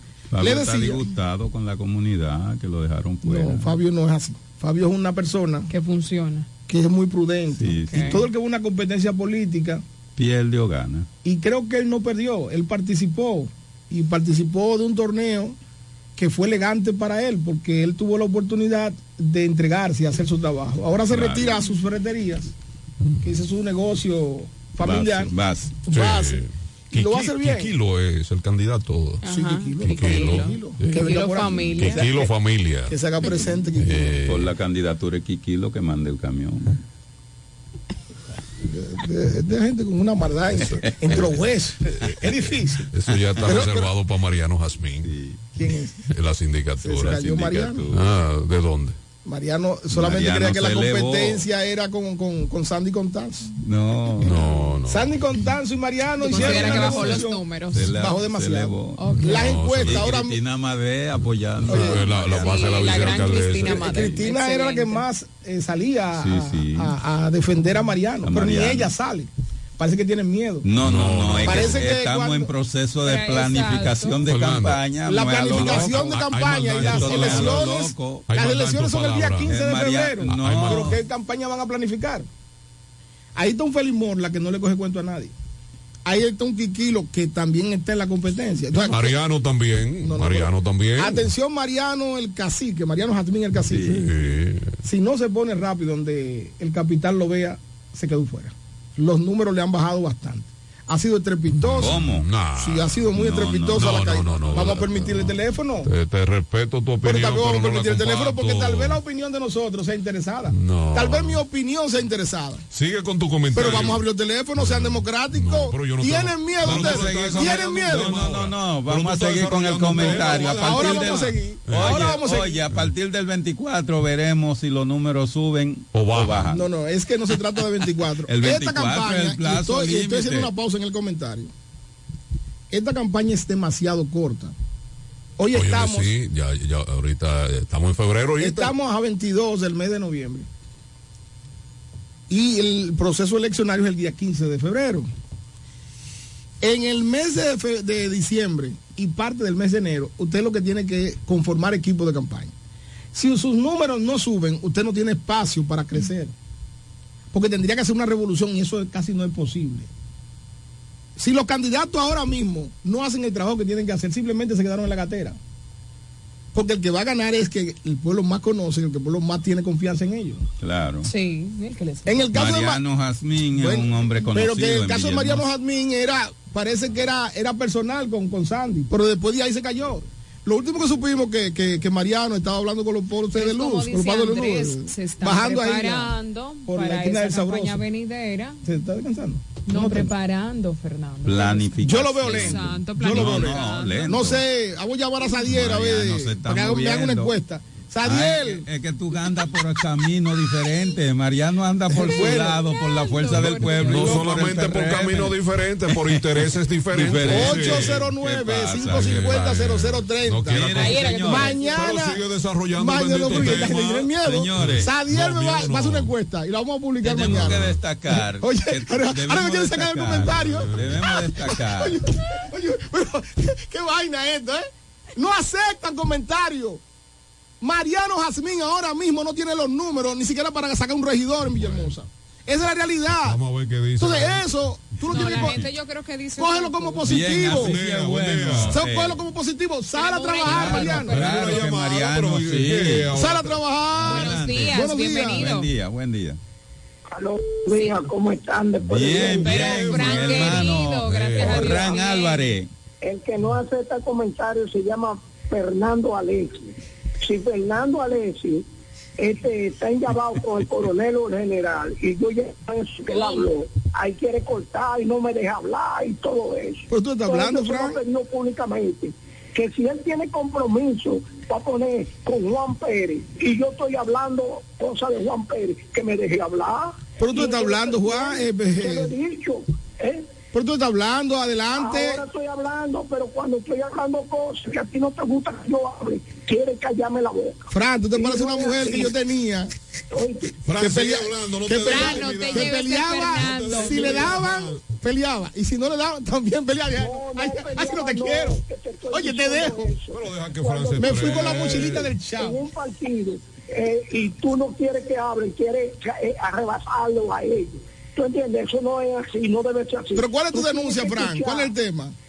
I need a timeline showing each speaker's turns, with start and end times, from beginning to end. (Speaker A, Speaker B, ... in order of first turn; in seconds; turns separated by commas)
Speaker A: 0.3-3.8, Speaker B: 0.4-1.1, Speaker B: 3.2-5.7, Speaker C: 5.7-6.5, Speaker B: 6.7-9.8, Speaker A: 7.5-8.2, Speaker C: 7.9-8.3, Speaker A: 10.2-11.1, Speaker B: 11.2-15.6, Speaker B: 16.2-22.5, Speaker A: 21.1-21.6, Speaker D: 23.0-23.4, Speaker B: 23.2-25.3, Speaker A: 24.8-25.8, Speaker B: 25.9-27.7, Speaker D: 25.9-29.2, Speaker C: 29.2-32.2, Speaker B: 29.3-32.3, Speaker D: 29.9-31.0, Speaker D: 31.8-33.0, Speaker B: 32.9-34.1, Speaker D: 33.8-34.5, Speaker A: 34.2-36.8, Speaker B: 38.6-42.9, Speaker D: 42.9-45.1, Speaker B: 43.4-43.9, Speaker A: 45.0-45.5, Speaker B: 45.5-46.0, Speaker D: 46.1-47.2, Speaker B: 46.8-47.9, Speaker A: 47.1-48.0, Speaker D: 47.9-49.0, Speaker B: 49.2-53.5, Speaker A: 49.9-51.5, Speaker A: 53.6-54.3, Speaker D: 54.2-55.1, Speaker C: 54.4-54.7, Speaker B: 54.9-60.4, Speaker C: 56.2-58.0, Speaker A: 56.4-57.0, Speaker A: 57.7-59.0, Speaker C: 59.0-59.5, Speaker D: 59.4-60.0, Speaker A: 59.8-62.6, Speaker B: 61.6-62.1, Speaker D: 61.7-63.8, Speaker C: 62.4-65.1, Speaker B: 63.7-70.7, Speaker A: 66.1-67.0, Speaker A: 68.2-68.9, Speaker A: 70.6-76.1, Speaker D: 70.8-71.7, Speaker B: 71.4-72.5, Speaker C: 73.0-74.2, Speaker D: 74.2-74.8, Speaker B: 75.0-82.3, Speaker D: 75.6-77.6, Speaker A: 76.8-78.3, Speaker D: 78.3-79.5, Speaker A: 79.5-81.0, Speaker D: 80.3-80.9, Speaker B: 83.4-85.3, Speaker B: 86.1-89.2, Speaker D: 88.8-91.3, Speaker B: 90.0-94.0, Speaker A: 93.7-94.0, Speaker D: 94.0-94.8, Speaker B: 94.8-102.0, Speaker D: 101.6-103.1, Speaker A: 101.7-102.3, Speaker B: 102.6-105.9, Speaker A: 103.1-104.5, Speaker D: 103.8-109.0, Speaker B: 107.0-112.6, Speaker D: 110.5-111.4, Speaker D: 112.7-114.0, Speaker B: 113.5-118.2, Speaker D: 114.6-122.0, Speaker A: 116.6-126.6, Speaker B: 119.9-122.6, Speaker D: 125.9-126.5, Speaker B: 126.5-131.5, Speaker A: 128.2-130.5, Speaker B: 132.7-134.5, Speaker B: 135.4-136.1, Speaker D: 135.5-138.7, Speaker B: 138.4-140.5, Speaker B: 142.3-145.1, Speaker B: 146.6-152.5, Speaker B: 153.1-156.3, Speaker B: 157.3-159.9, Speaker B: 161.2-165.4, Speaker B: 166.5-170.4, Speaker A: 170.6-171.1, Speaker C: 171.0-172.4, Speaker B: 172.1-172.8, Speaker A: 172.3-175.5, Speaker B: 173.5-187.8, Speaker C: 183.3-188.6, Speaker B: 188.7-190.1, Speaker C: 189.6-194.3, Speaker A: 191.3-194.4, Speaker B: 191.8-198.7, Speaker A: 195.5-197.3, Speaker A: 198.0-209.3, Speaker B: 201.9-202.7, Speaker C: 202.1-204.3, Speaker D: 203.9-208.1, Speaker B: 207.1-226.8, Speaker D: 209.0-210.9, Speaker A: 210.5-211.7, Speaker C: 210.8-211.7, Speaker D: 211.7-216.1, Speaker A: 213.4-214.9, Speaker A: 217.0-222.0, Speaker D: 220.5-220.9, Speaker B: 227.6-233.4, Speaker D: 231.4-231.9, Speaker D: 233.1-234.5, Speaker B: 234.0-235.6, Speaker C: 235.0-237.2, Speaker B: 236.4-237.8, Speaker A: 237.0-239.2, Speaker D: 237.7-238.8, Speaker B: 238.7-241.2, Speaker C: 239.9-241.6, Speaker A: 240.5-243.3, Speaker D: 241.2-244.1, Speaker B: 243.1-245.6, Speaker A: 244.0-246.4, Speaker C: 244.2-245.7, Speaker E: 247.1-249.6, Speaker C: 247.7-248.1, Speaker A: 248.8-252.7, Speaker C: 249.4-252.5, Speaker D: 249.6-251.7, Speaker E: 253.0-258.7, Speaker E: 259.2-280.3, Speaker B: 266.9-268.0, Speaker B: 277.2-279.2, Speaker B: 280.5-282.2, Speaker E: 281.8-289.2, Speaker B: 287.7-289.7, Speaker E: 290.1-290.6, Speaker D: 290.6-292.6, Speaker B: 290.7-300.0, Speaker C: 291.8-294.4, Speaker D: 293.3-294.9, Speaker E: 297.0-311.7, Speaker D: 300.1-302.1, Speaker B: 300.9-302.7, Speaker B: 310.1-312.1